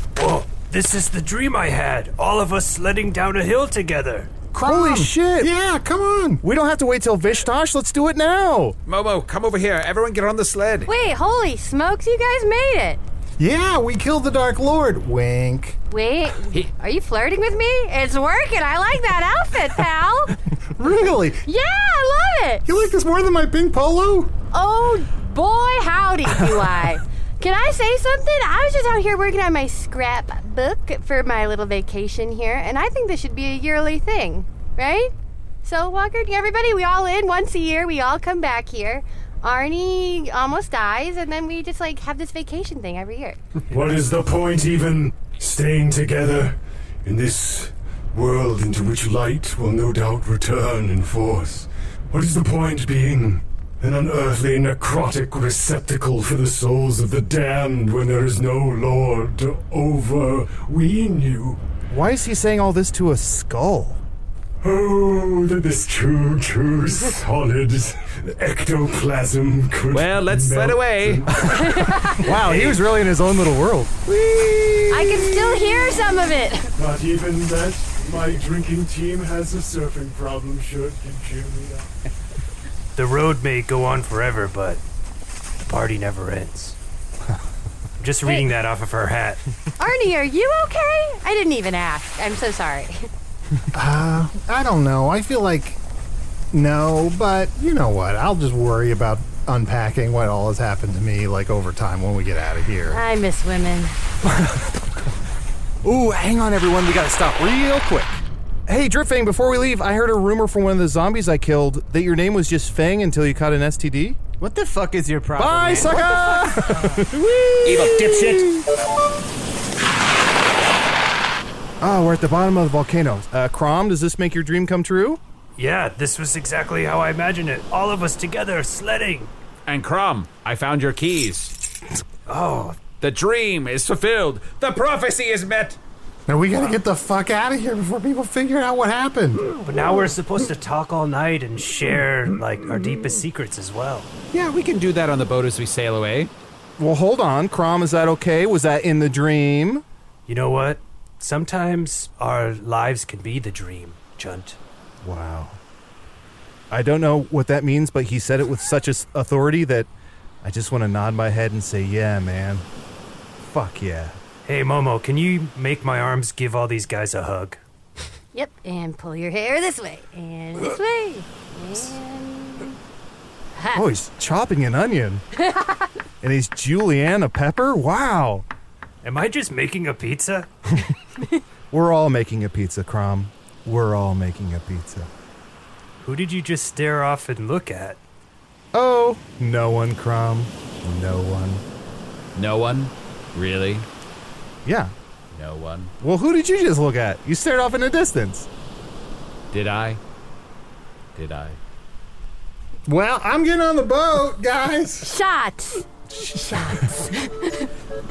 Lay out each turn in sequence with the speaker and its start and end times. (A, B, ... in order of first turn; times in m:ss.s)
0:00.2-0:04.3 A
0:04.5-0:06.4 B
0:04.6-0:05.5 C
0:06.4-0:08.8 C
0:08.9-0:10.9 D
0:10.9-0:13.0 E
0:13.4-0:15.8 B
0:15.9-0:20.4 E
0:20.8-0:21.5 B
0:21.4-0:22.6 E
0:22.6-0:24.3 B
0:24.5-0:35.1 E
0:35.6-0:43.4 E
0:43.7-1:01.6 F
1:01.9-1:04.0 C
1:04.6-1:11.8 F
1:09.9-1:11.2 D
1:11.4-1:15.9 C
1:11.5-1:12.3 E
1:14.9-1:16.7 E
1:16.8-1:21.9 F
1:23.0-1:24.8 A
1:25.6-1:26.8 A
1:28.0-1:29.4 A
1:28.2-1:28.5 E
1:29.8-1:33.1 E
1:33.7-1:35.8 B
1:36.5-1:43.0 B
1:42.9-1:44.0 E
1:44.2-1:44.7 C
1:45.8-1:54.2 C
1:54.4-1:57.0 G
1:55.4-1:58.6 C
1:57.6-1:58.5 D
2:01.8-2:05.2 C
2:05.6-2:09.3 A
2:09.7-2:11.6 D
2:12.3-2:12.8 A
2:13.0-2:15.8 D
2:16.3-2:19.5 B
2:19.6-2:24.1 A
2:24.3-2:26.3 D
2:26.8-2:29.8 C
2:30.3-2:34.6 A
2:35.0-2:35.6 C
2:36.7-2:39.9 C
2:40.4-2:42.6 C
2:43.4-2:44.2 C
2:44.4-2:47.6 A
2:48.3-2:52.8 E
2:53.6-2:53.9 E
2:53.7-2:55.2 C
2:55.4-2:55.9 E
2:56.2-2:58.5 C
2:59.0-3:00.5 A
3:01.7-3:05.1 C
3:06.0-3:08.0 A
3:08.7-3:11.6 C
3:12.4-3:13.9 D
3:14.6-3:14.9 C
3:15.3-3:15.9 D
3:16.0-3:18.5 C
3:19.5-3:20.0 D
3:21.2-3:21.6 D
3:22.9-3:25.2 B
3:25.0-3:25.9 E
3:26.5-3:27.7 E